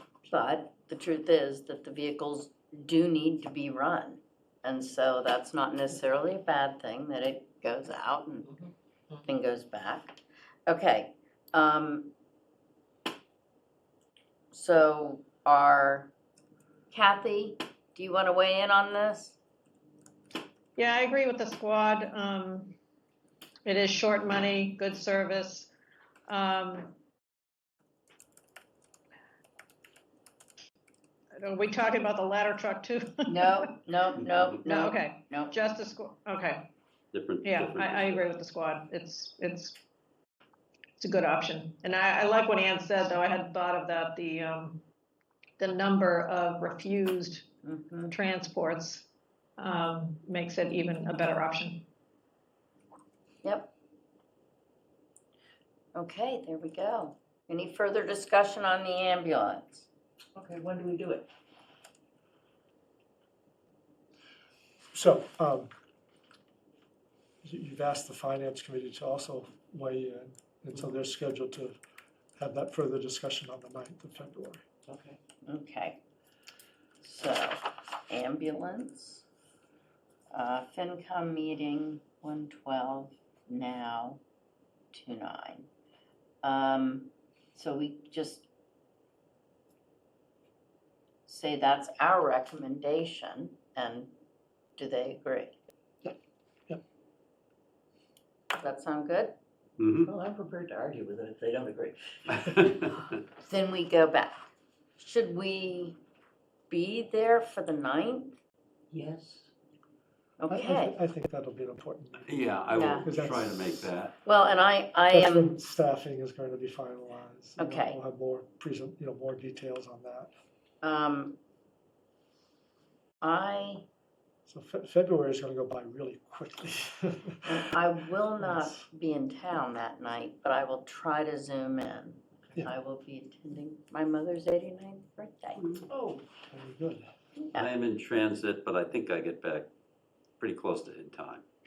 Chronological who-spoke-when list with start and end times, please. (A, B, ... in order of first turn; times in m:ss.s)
0:00.3-0:08.5 A
0:09.2-0:12.1 A
0:14.5-0:16.1 A
0:16.9-0:19.4 A
0:20.8-0:22.8 B
0:23.6-0:25.7 B
0:26.3-0:27.0 B
0:31.4-0:33.7 B
0:33.3-0:35.6 A
0:34.6-0:36.6 B
0:37.1-0:38.2 C
0:37.4-0:39.8 B
0:41.0-0:44.8 B
0:45.6-0:47.5 B
0:47.6-0:48.2 A
0:48.1-0:49.1 B
0:49.6-0:51.8 B
0:53.4-0:53.7 A
0:56.0-0:59.9 A
1:00.4-1:01.3 D
1:04.9-1:05.7 E
1:07.4-1:11.8 E
1:10.8-1:11.0 D
1:12.4-1:14.6 E
1:14.9-1:15.2 D
1:15.4-1:16.0 A
1:17.0-1:19.2 A
1:20.3-1:24.2 A
1:24.9-1:25.7 A
1:26.4-1:28.5 A
1:31.3-1:34.1 A
1:34.8-1:35.6 A
1:38.6-1:39.4 A
1:39.8-1:40.1 C
1:40.1-1:42.6 D
1:42.3-1:42.9 C
1:43.4-1:44.4 A
1:45.0-1:46.0 A
1:46.7-1:48.4 A
1:48.9-1:49.5 D
1:50.4-1:51.0 A
1:50.5-1:53.7 E
1:52.2-1:54.2 C
1:52.7-1:53.1 A
1:54.2-1:55.6 A
1:55.1-2:00.3 E
1:57.6-1:58.0 A
2:00.8-2:01.4 A
2:03.2-2:03.8 A
2:04.5-2:07.6 E
2:07.4-2:15.6 A
2:08.4-2:08.8 E
2:15.6-2:15.8 C
2:15.9-2:17.1 E
2:17.4-2:17.7 A
2:17.5-2:19.7 C
2:20.4-2:21.4 C